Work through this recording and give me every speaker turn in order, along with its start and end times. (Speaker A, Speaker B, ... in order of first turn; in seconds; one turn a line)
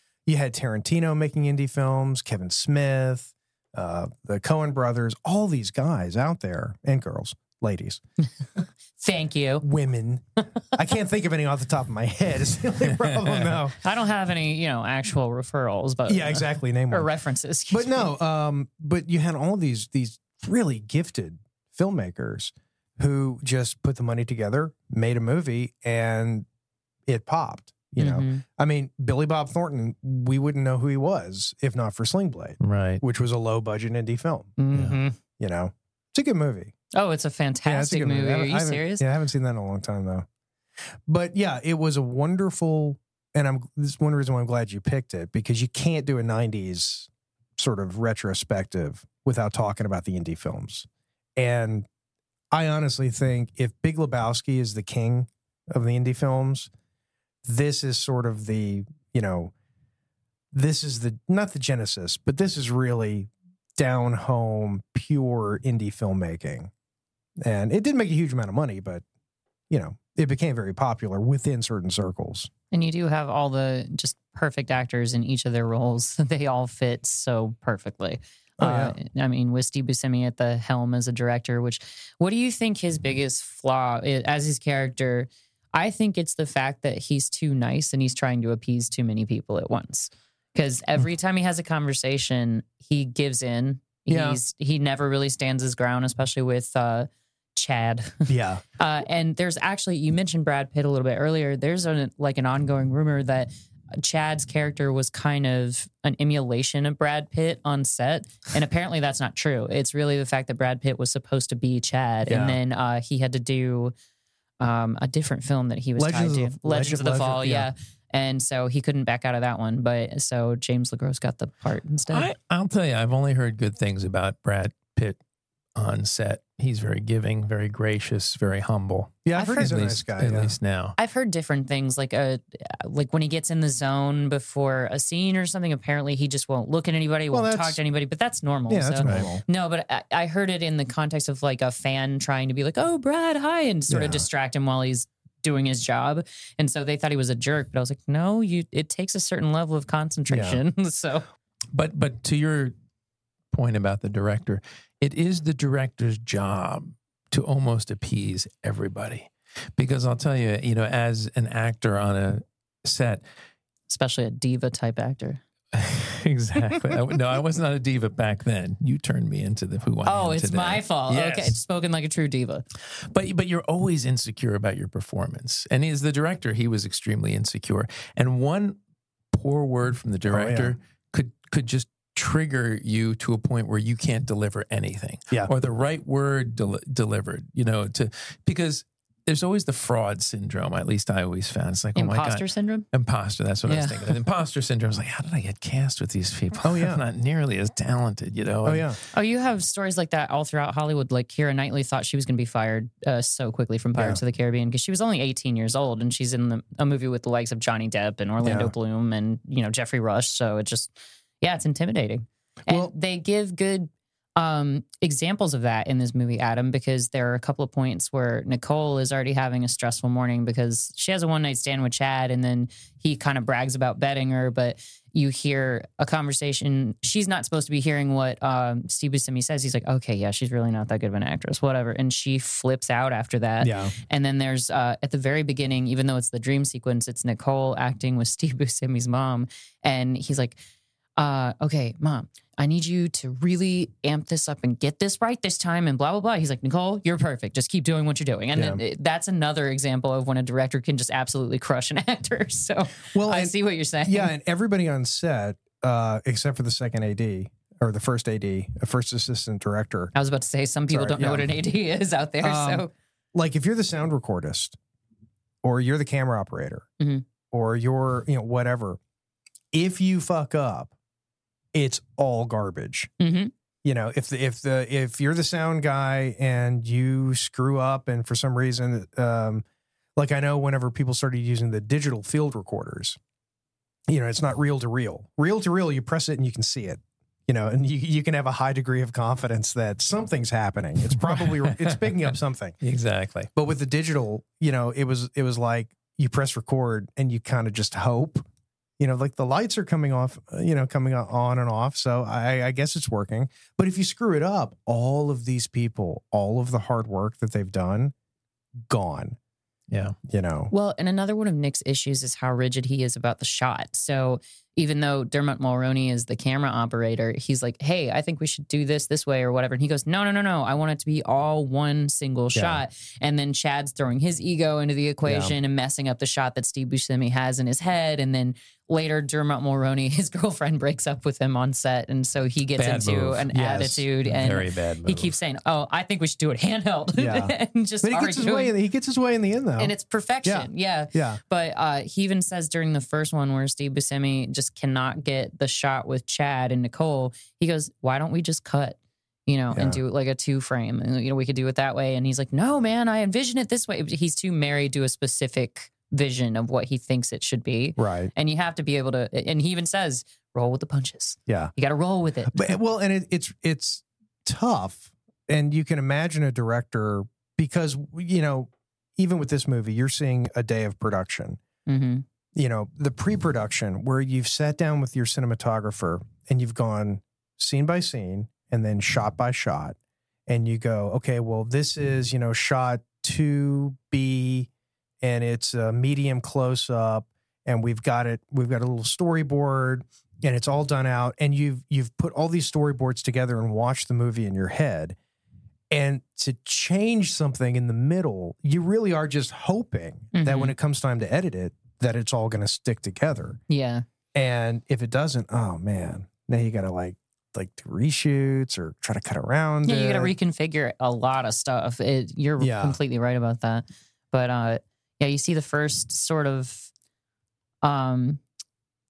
Speaker A: 0.2-8.0
Speaker B: 9.0-9.7
Speaker A: 9.6-13.8
Speaker B: 13.8-18.1
Speaker A: 16.1-17.1
Speaker A: 17.7-26.4
Speaker A: 27.1-34.6
Speaker B: 28.0-28.4
Speaker C: 32.6-33.0
Speaker B: 34.6-35.1
Speaker A: 35.4-36.7
Speaker B: 36.9-39.0
Speaker A: 37.6-40.2
Speaker A: 41.0-51.9
Speaker A: 52.5-56.7
Speaker A: 57.4-59.5
Speaker A: 60.5-66.7
Speaker A: 67.4-69.0
Speaker A: 69.7-72.5
Speaker B: 72.7-113.9
Speaker A: 78.6-79.0
Speaker A: 94.1-94.4
Speaker A: 98.3-98.6
Speaker A: 112.2-112.6
Speaker B: 114.6-122.3
Speaker A: 116.0-117.7
Speaker C: 122.1-125.2
Speaker C: 125.8-130.9
Speaker A: 129.2-130.5
Speaker B: 129.3-129.8
Speaker B: 131.0-151.2
Speaker A: 137.3-137.8
Speaker A: 138.7-139.4
Speaker C: 139.0-139.3
Speaker A: 143.9-144.3
Speaker A: 150.3-150.6
Speaker C: 151.7-152.7
Speaker C: 153.5-163.2
Speaker B: 163.9-165.4
Speaker C: 165.7-171.6
Speaker B: 170.0-172.6
Speaker C: 173.0-178.8
Speaker C: 179.3-198.9
Speaker A: 180.3-180.8
Speaker B: 191.9-192.8
Speaker B: 193.7-194.1
Speaker A: 196.6-197.0
Speaker A: 198.6-199.0
Speaker B: 199.1-240.6
Speaker A: 203.9-204.2
Speaker A: 208.4-208.7
Speaker A: 212.7-212.9
Speaker A: 233.6-233.9
Speaker B: 241.2-254.3
Speaker A: 248.5-248.8
Speaker A: 253.1-260.1
Speaker B: 260.1-262.9
Speaker A: 260.9-261.5
Speaker A: 262.4-264.8
Speaker A: 265.6-266.9
Speaker A: 267.5-269.0
Speaker A: 269.7-270.9
Speaker A: 271.7-273.1
Speaker B: 273.2-273.5
Speaker A: 273.8-279.6
Speaker A: 280.1-283.2
Speaker A: 284.1-292.8
Speaker C: 291.3-292.1
Speaker C: 292.8-293.5
Speaker A: 293.5-298.4
Speaker A: 299.0-308.1
Speaker A: 308.9-309.4
Speaker A: 310.3-310.7
Speaker B: 310.7-338.7
Speaker A: 322.5-322.8
Speaker C: 332.8-333.5
Speaker A: 333.5-334.0
Speaker C: 334.2-335.3
Speaker A: 337.2-341.4
Speaker B: 339.8-362.8
Speaker A: 349.7-350.0
Speaker A: 358.0-358.3
Speaker A: 362.5-371.6
Speaker B: 371.9-372.2
Speaker A: 372.5-384.7
Speaker A: 385.2-395.1
Speaker A: 395.9-403.6
Speaker B: 400.3-400.7
Speaker B: 403.7-404.0
Speaker A: 404.3-410.3
Speaker B: 409.8-416.9
Speaker A: 412.6-413.0
Speaker B: 417.8-418.4